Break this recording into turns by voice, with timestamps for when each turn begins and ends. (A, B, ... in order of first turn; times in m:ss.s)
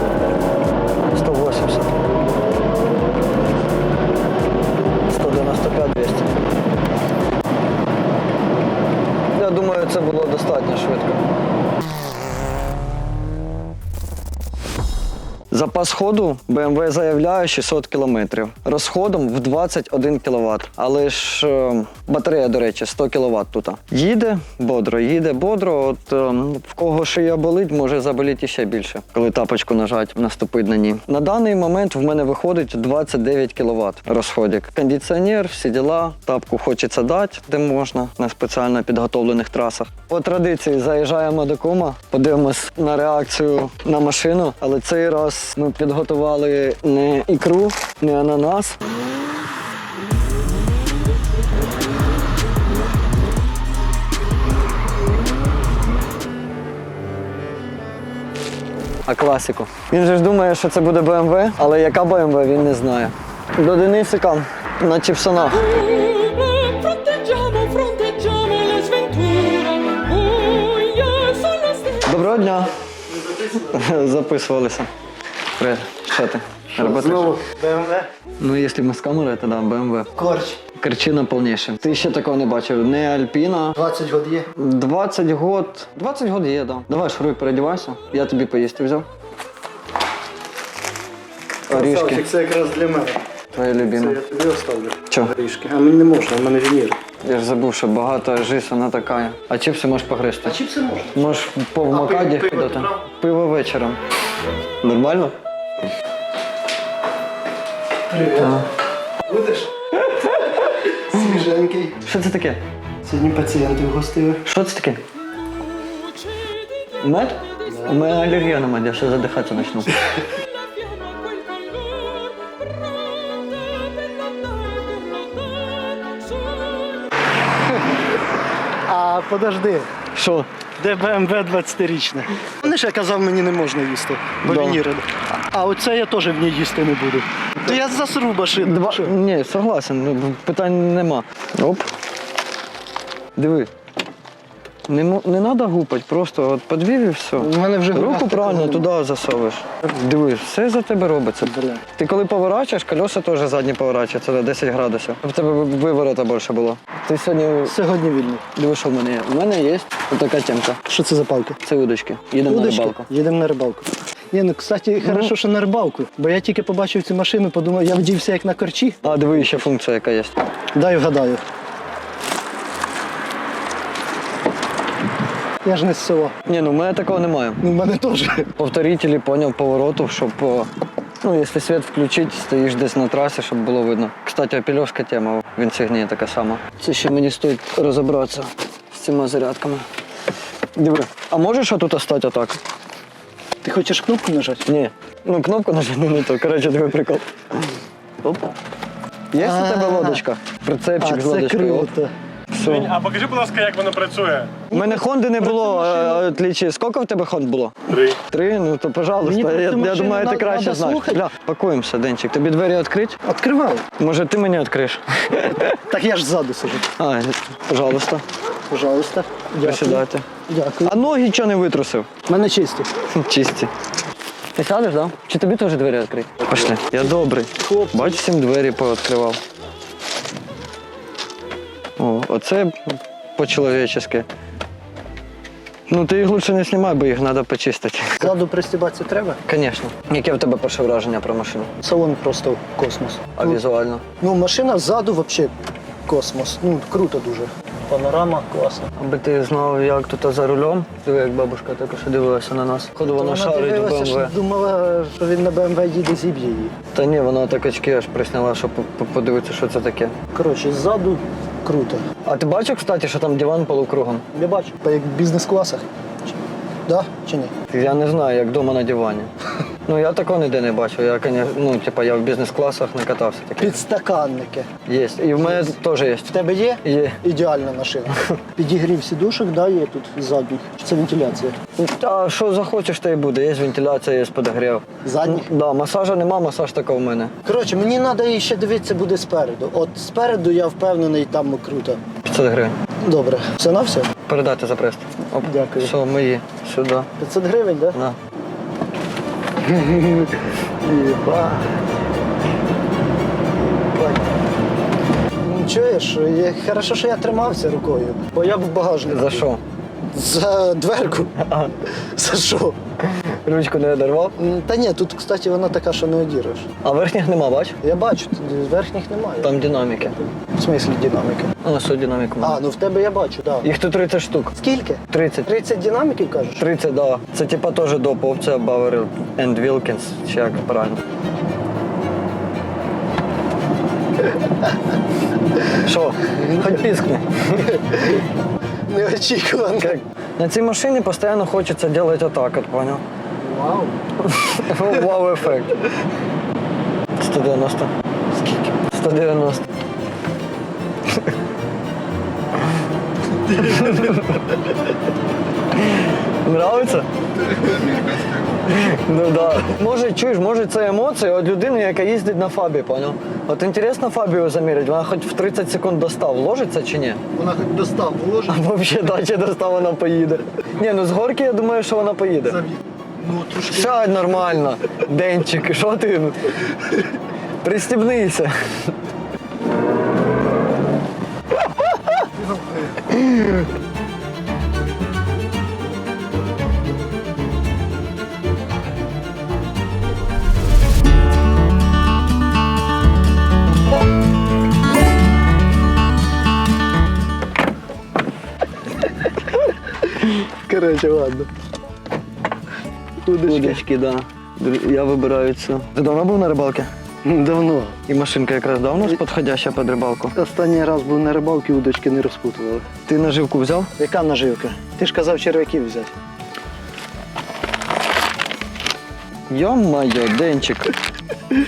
0:01.1-0:02.0 A
0:05.1-0:06.3 A
0:09.3-0:11.2 A
0:15.5-0:48.8 A
0:59.1-1:05.9 A
1:06.2-1:11.9 B
1:12.0-1:12.8 A
1:13.2-1:13.7 C
1:13.5-1:14.9 A
1:15.6-1:17.4 A
1:16.7-1:18.1 C
1:18.4-1:20.2 A
1:20.1-1:20.6 C
1:20.7-1:23.8 A
1:23.8-1:24.5 C
1:24.5-1:29.1 A
1:31.7-1:32.3 A
1:31.7-1:33.2 C
1:33.5-1:34.2 A
1:33.8-1:37.0 C
1:35.1-1:35.3 A
1:37.2-1:40.6 A
1:40.4-1:43.0 C
1:41.1-1:44.0 A
1:44.8-1:45.3 A
1:48.1-1:48.6 C
1:48.4-1:48.7 A
1:49.2-1:49.7 C
1:50.1-1:51.4 A
1:50.6-1:52.0 C
1:52.0-1:52.6 A
1:53.0-1:54.4 C
1:54.4-1:55.0 A
1:57.0-2:00.1 A
2:01.7-2:02.2 C
2:05.9-2:06.6 C
2:08.8-2:09.9 C
2:10.1-2:10.5 A
2:10.8-2:19.2 C
2:14.4-2:14.8 A
2:18.6-2:21.9 A
2:23.4-2:23.7 A
2:24.9-2:37.8 A
2:27.4-2:28.8 C
2:31.5-2:31.8 C
2:37.7-2:38.4 C
2:38.5-2:40.8 A
2:40.8-2:41.6 C
2:41.6-2:43.1 A
2:42.5-2:49.6 C
2:49.0-2:50.4 A
2:50.7-2:51.4 C
2:55.6-2:56.3 C
2:56.4-2:57.6 A
2:57.6-2:58.5 C
2:58.6-3:00.7 A
3:01.2-3:09.8 A
3:10.8-3:12.6 A
3:13.6-3:14.6 C
3:14.7-3:18.5 A
3:19.3-3:21.9 A
3:19.4-3:20.2 C
3:21.0-3:22.1 C
3:22.5-3:22.9 A
3:22.6-3:24.6 B
3:24.7-3:26.2 C
3:24.7-3:33.2 A
3:27.9-3:28.2 B
3:29.2-3:31.2 C
3:33.2-3:33.8 C
3:34.0-3:35.8 A
3:35.9-3:36.9 C
3:37.0-3:38.2 A
3:38.7-3:41.0 C
3:39.6-3:40.2 A
3:40.8-3:42.1 A
3:42.3-3:42.9 C
3:43.1-3:43.7 A
3:44.5-3:49.4 A
3:47.6-3:48.2 C
3:52.0-3:54.3 A
3:55.9-3:58.3 A
3:58.2-3:59.4 C
3:59.4-4:01.7 A
4:01.8-4:03.6 C
4:03.3-4:04.0 A
4:04.2-4:05.5 C
4:06.0-4:08.9 C
4:08.9-4:14.3 A
4:13.0-4:16.7 C
4:16.9-4:20.1 A
4:20.3-4:22.0 C
4:22.2-4:24.2 A
4:24.3-4:25.8 C
4:26.8-4:27.5 C
4:27.7-4:29.3 A
4:29.8-4:33.8 A
4:33.6-4:34.7 C
4:34.8-4:37.2 A
4:35.4-4:41.6 C
4:41.8-4:47.3 A
4:45.0-4:45.5 C
4:47.4-4:52.0 C
4:52.2-4:52.8 A
4:53.0-4:54.1 C
4:54.2-4:57.1 A
4:55.4-4:56.0 C
4:57.2-4:58.0 C
4:59.6-5:01.8 C
5:03.9-5:04.3 C
5:05.4-5:09.5 C
5:09.1-5:09.6 A
5:10.0-5:12.8 C
5:11.4-5:11.7 A
5:13.0-5:14.4 A
5:14.4-5:16.7 C
5:16.8-5:17.8 A
5:17.8-5:21.5 C
5:19.4-5:20.2 A
5:21.6-5:22.6 A
5:22.4-5:23.7 C
5:23.6-5:24.6 A
5:24.5-5:26.6 C
5:25.1-5:25.5 A
5:26.6-5:31.0 A
5:35.7-5:38.2 A
5:36.3-5:37.0 C
5:37.6-5:38.0 C
5:38.9-5:40.0 C
5:39.8-5:43.0 A
5:43.4-5:44.0 C
5:44.2-5:45.8 A
5:47.2-5:49.7 A
5:53.5-5:54.6 A
5:55.7-5:57.1 A
5:57.4-5:58.4 C
5:58.6-6:07.2 A
6:07.3-6:08.6 C
6:08.4-6:12.7 A
6:12.5-6:14.6 C
6:13.6-6:16.4 A
6:17.6-6:19.0 A
6:21.8-6:22.2 A
6:22.4-6:23.0 C
6:23.1-6:23.6 A
6:40.0-6:41.5 C
6:43.2-6:43.8 C
6:43.4-6:46.9 A
6:47.2-6:48.0 C
6:48.1-6:50.4 A
6:50.3-6:52.9 C
6:53.0-6:53.9 A
6:54.0-6:56.1 C
6:59.5-7:00.9 A